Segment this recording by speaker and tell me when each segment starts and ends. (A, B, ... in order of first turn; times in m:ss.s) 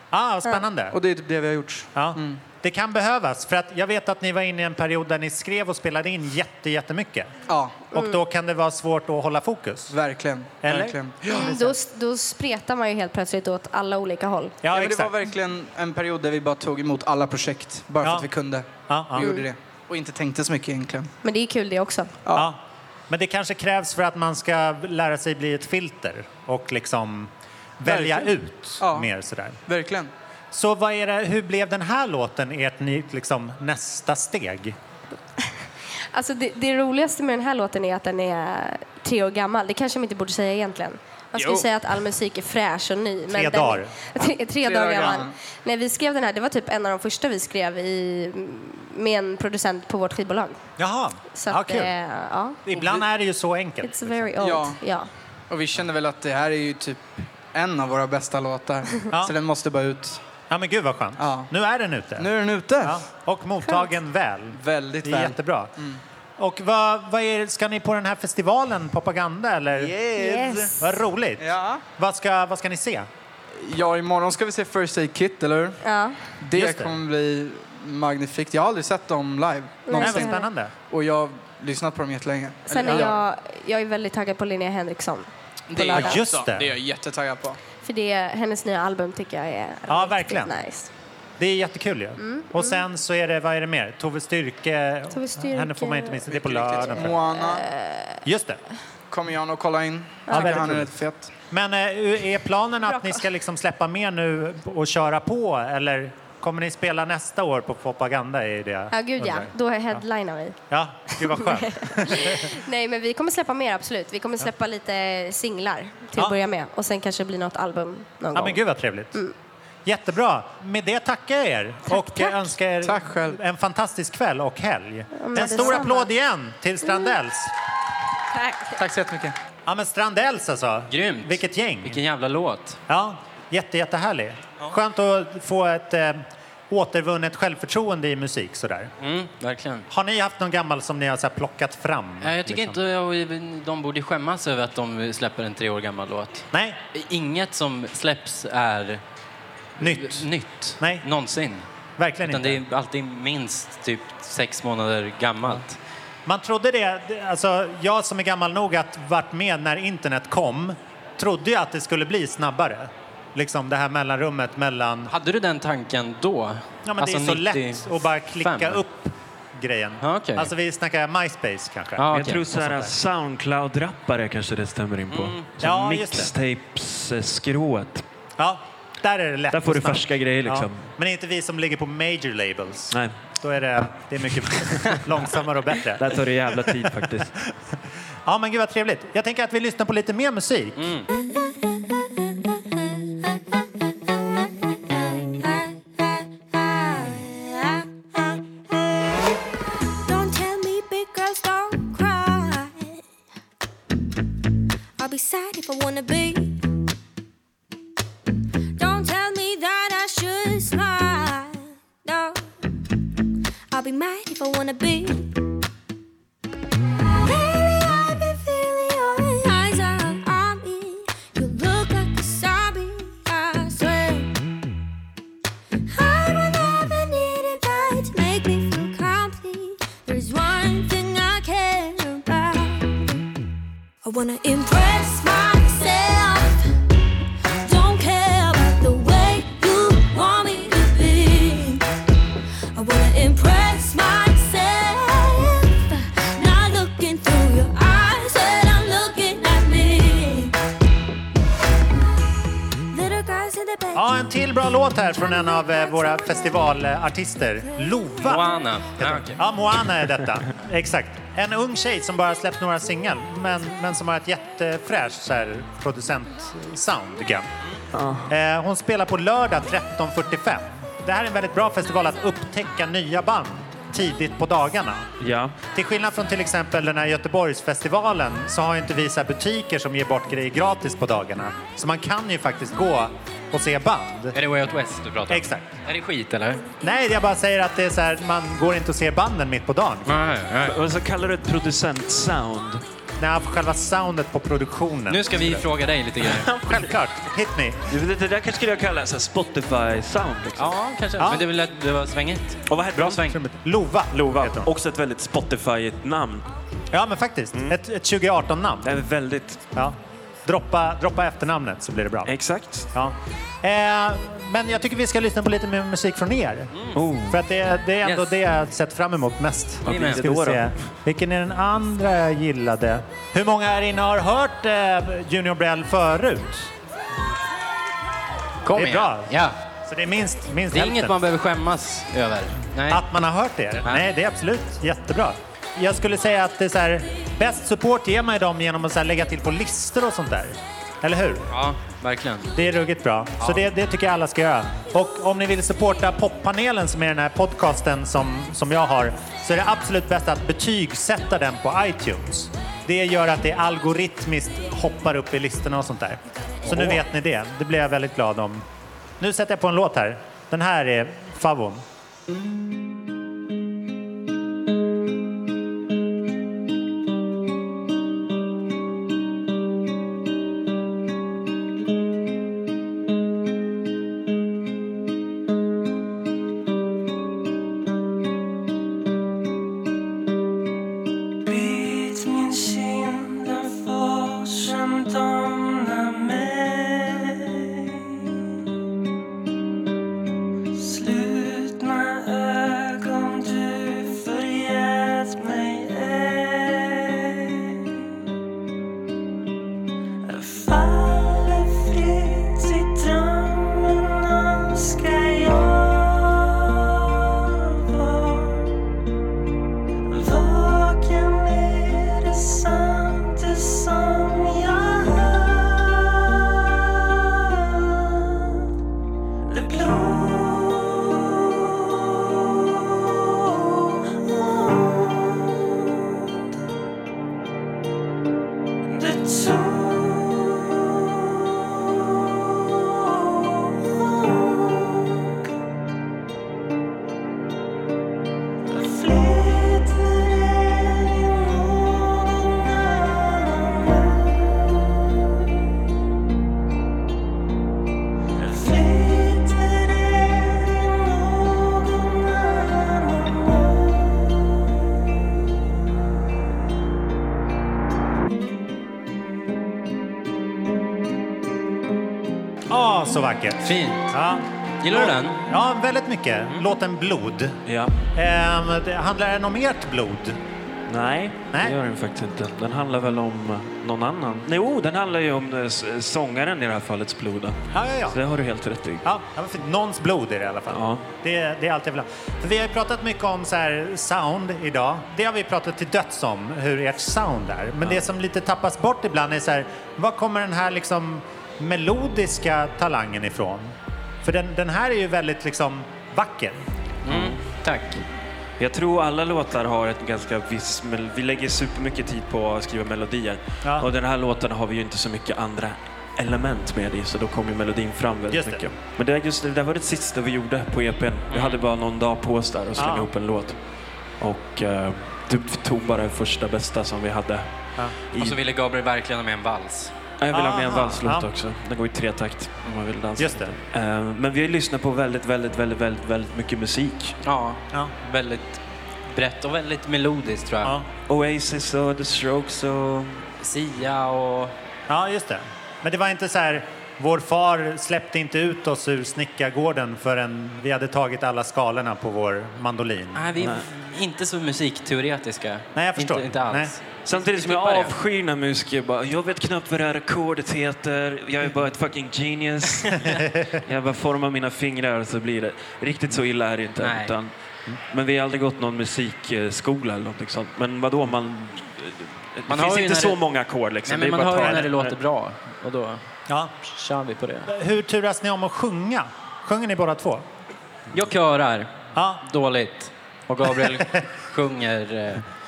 0:00.1-0:01.0 A
0:00.9-0:02.4 B
0:01.9-0:07.3 A
0:07.5-0:07.8 B
0:07.9-0:09.9 A
0:09.9-0:11.5 B
0:10.6-0:11.7 A
0:11.3-0:14.6 C
0:14.6-0:15.1 A
0:14.7-0:21.1 B
0:18.0-0:18.3 A
0:18.9-0:19.3 A
0:19.2-0:19.5 C
0:21.2-0:22.1 C
0:22.3-0:29.6 A
0:27.8-0:29.1 B
0:29.6-0:30.1 B
0:30.5-0:34.8 A
0:36.1-0:50.6 C
0:41.4-0:41.7 B
0:43.3-0:44.0 A
0:44.6-0:45.3 B
0:50.8-0:51.9 A
0:51.3-0:52.6 C
0:52.6-0:54.3 A
0:53.8-0:55.1 C
0:54.4-0:54.8 B
0:55.5-1:00.2 B
1:00.5-1:02.3 A
1:01.2-1:01.5 B
1:02.2-1:03.0 B
1:02.8-1:05.7 A
1:04.5-1:06.0 B
1:06.4-1:10.0 A
1:09.8-1:10.7 B
1:10.2-1:10.7 C
1:10.8-1:13.1 A
1:11.4-1:11.8 B
1:13.6-1:15.8 B
1:15.8-1:16.2 C
1:16.4-1:20.4 B
1:16.5-1:17.0 A
1:19.8-1:20.4 C
1:19.9-1:20.7 A
1:20.9-1:23.2 B
1:22.7-1:26.2 C
1:25.7-1:27.6 B
1:25.9-1:26.7 A
1:27.8-1:30.9 C
1:29.9-1:30.5 A
1:31.4-1:37.2 A
1:32.2-1:32.8 C
1:35.1-1:36.2 C
1:36.3-1:37.6 B
1:37.0-1:38.2 C
1:38.2-1:38.6 A
1:39.1-1:41.3 B
1:40.3-1:40.6 C
1:40.3-1:40.9 A
1:41.5-1:50.0 A
1:42.9-1:43.2 C
1:48.9-1:50.6 C
1:50.7-1:52.5 A
1:51.2-1:58.6 C
1:58.3-1:59.2 A
1:59.8-2:07.5 A
2:01.9-2:02.3 C
2:02.8-2:03.4 B
2:05.2-2:06.1 C
2:08.3-2:08.8 C
2:08.8-2:09.3 B
2:09.6-2:12.0 A
2:10.9-2:12.8 D
2:12.9-2:18.9 A
2:19.0-2:19.9 D
2:19.9-2:22.8 A
2:22.2-2:29.0 D
2:29.8-2:31.6 D
2:29.8-2:30.3 A
2:30.8-2:31.0 A
2:32.0-2:32.6 A
2:32.2-2:35.8 D
2:36.2-2:45.1 A
2:45.1-2:47.9 D
2:46.8-2:53.0 A
2:48.4-2:48.8 D
2:50.0-2:50.5 D
2:52.0-2:52.4 D
2:52.1-2:58.0 E
2:55.1-2:55.5 D
2:55.6-2:56.3 A
2:58.4-3:06.9 A
2:59.5-3:00.9 E
3:05.9-3:07.3 E
3:08.2-3:10.9 A
3:10.8-3:11.1 D
3:12.4-3:13.1 F
3:14.9-3:18.9 F
3:20.0-3:23.0 F
3:25.0-3:26.6 F
3:28.8-3:32.5 F
3:33.7-3:35.3 F
3:37.1-3:44.3 F
3:45.9-3:53.2 F
3:54.0-3:56.6 F
3:57.6-4:01.8 F
4:02.7-4:10.6 F
4:12.9-4:14.1 F
4:13.9-4:27.5 A
4:18.2-4:19.4 D
4:27.9-4:28.3 E
4:28.3-4:35.0 A
4:35.2-4:35.6 E
4:35.7-4:44.4 A
4:44.3-4:46.6 D
4:45.3-4:45.7 A
4:46.8-4:50.1 A
4:50.1-4:50.8 D
4:50.6-4:52.8 E
4:53.2-4:55.6 A
4:55.1-4:56.5 D
4:56.3-4:57.0 E
4:56.7-4:57.8 A
4:57.9-5:00.7 E
5:00.6-5:03.4 D
5:01.2-5:01.4 A
5:02.7-5:03.2 E
5:03.0-5:04.7 A
5:04.1-5:06.4 E
5:06.9-5:08.9 A
5:07.5-5:07.8 E
5:08.8-5:09.6 E
5:09.7-5:12.3 A
5:12.2-5:12.9 E
5:12.9-5:16.8 A
5:16.9-5:17.4 E
5:17.3-5:26.7 A
5:18.0-5:18.3 D
5:19.8-5:20.7 E
5:19.8-5:20.2 D
5:28.6-5:29.6 D
5:28.7-5:31.1 A
5:30.7-5:33.0 D
5:32.9-5:41.5 A
5:41.5-5:42.5 D
5:42.5-5:58.6 A
5:56.7-5:57.0 E
5:59.2-6:01.8 A
6:21.4-6:28.2 G
6:30.7-6:37.8 G
6:40.2-6:48.7 G
6:50.1-6:58.6 G
6:59.5-7:05.8 G
7:08.8-7:15.3 G
7:18.7-7:24.8 G
7:28.4-7:34.0 G
7:42.7-7:47.6 A
7:43.6-7:44.1 D
7:44.8-7:45.4 D
7:47.6-7:48.0 E
7:48.1-7:50.4 A
7:50.9-7:59.0 E
7:57.7-7:58.2 A
7:59.0-8:16.6 A
8:00.7-8:01.0 E
8:17.0-8:18.0 D
8:17.1-8:17.4 E
8:18.6-8:33.6 E
8:28.3-8:28.6 A
8:31.3-8:31.6 D
8:32.8-8:33.1 A
8:34.2-8:37.5 E
8:38.1-8:38.4 E
8:38.1-8:40.0 D
8:40.2-8:47.1 E
8:40.3-8:41.3 A
8:43.2-8:43.5 A
8:47.2-8:48.6 D
8:49.1-8:50.7 D
8:51.1-8:53.2 E
8:53.4-8:54.6 D
8:54.9-9:03.3 A
9:03.1-9:08.0 D
9:03.4-9:03.6 E
9:05.7-9:06.7 A
9:07.0-9:17.3 E
9:13.1-9:13.6 A
9:16.8-9:17.1 D
9:17.9-9:25.0 E
9:22.5-9:23.2 D
9:23.9-9:26.0 D
9:26.3-9:26.5 A
9:26.6-9:27.5 D
9:27.5-9:30.2 A
9:30.9-9:35.2 D
9:31.9-9:32.2 A